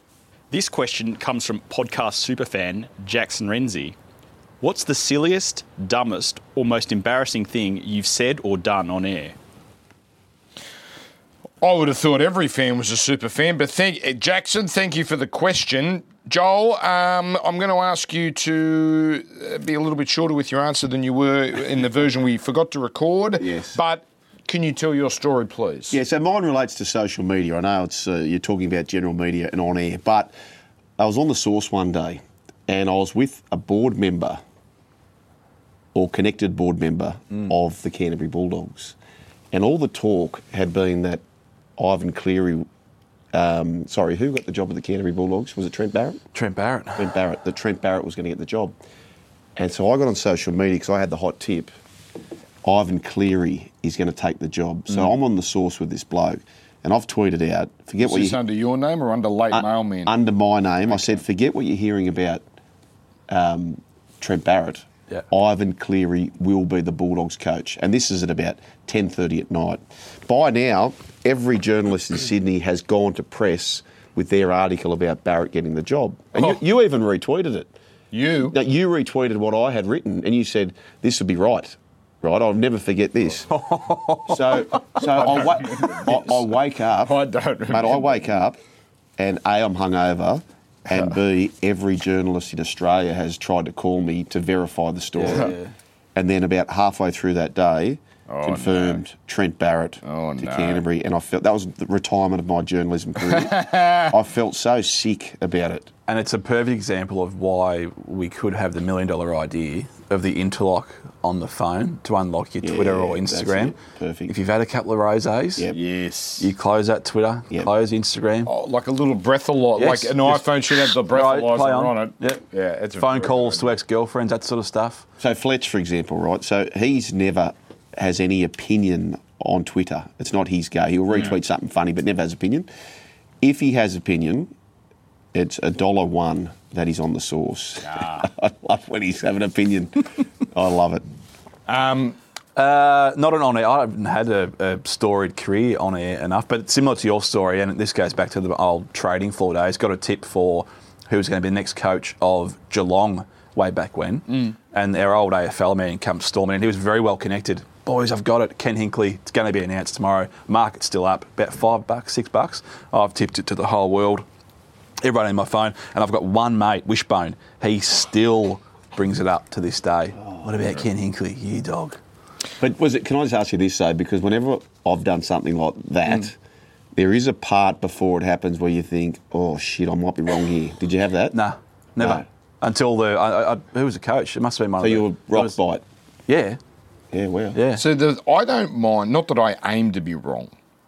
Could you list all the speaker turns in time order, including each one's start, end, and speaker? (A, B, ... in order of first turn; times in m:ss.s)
0:00.5-0:04.0 A
0:04.6-0:09.4 A
0:11.6-0:26.0 B
0:23.4-0:23.8 C
0:25.9-0:30.3 C
0:31.0-0:34.4 C
0:35.9-0:39.0 C
0:39.5-0:41.2 C
0:41.8-0:42.6 C
0:43.3-0:46.2 C
0:46.3-0:47.2 D
0:47.0-0:48.7 C
0:49.6-0:51.7 C
0:52.6-0:58.4 C
0:58.0-1:00.1 B
0:59.5-1:02.4 C
1:03.3-1:17.7 C
1:18.1-1:18.6 B
1:18.5-1:23.5 C
1:23.5-1:24.6 D
1:24.2-1:27.2 C
1:25.0-1:26.2 B
1:27.0-1:28.2 B
1:27.7-1:28.6 C
1:29.2-1:35.5 C
1:35.2-1:35.7 D
1:36.1-1:45.9 C
1:38.3-1:39.0 B
1:40.0-1:40.8 B
1:43.5-1:44.0 B
1:46.1-1:55.7 D
1:52.6-1:54.3 C
1:55.7-1:56.5 B
1:56.4-1:58.5 D
1:58.4-2:03.8 B
1:59.8-2:02.4 D
2:03.0-2:05.0 D
2:05.2-2:12.7 C
2:13.4-2:14.5 C
2:15.3-2:21.0 C
2:17.9-2:18.2 B
2:21.7-2:22.2 B
2:22.6-2:44.2 D
2:45.0-2:52.0 D
2:52.6-2:56.3 C
2:56.9-3:01.4 C
3:01.3-3:05.5 D
3:02.0-3:02.2 C
3:04.8-3:05.8 C
3:06.3-3:06.6 D
3:07.1-3:07.6 C
3:07.5-3:07.8 D
3:07.7-3:10.5 B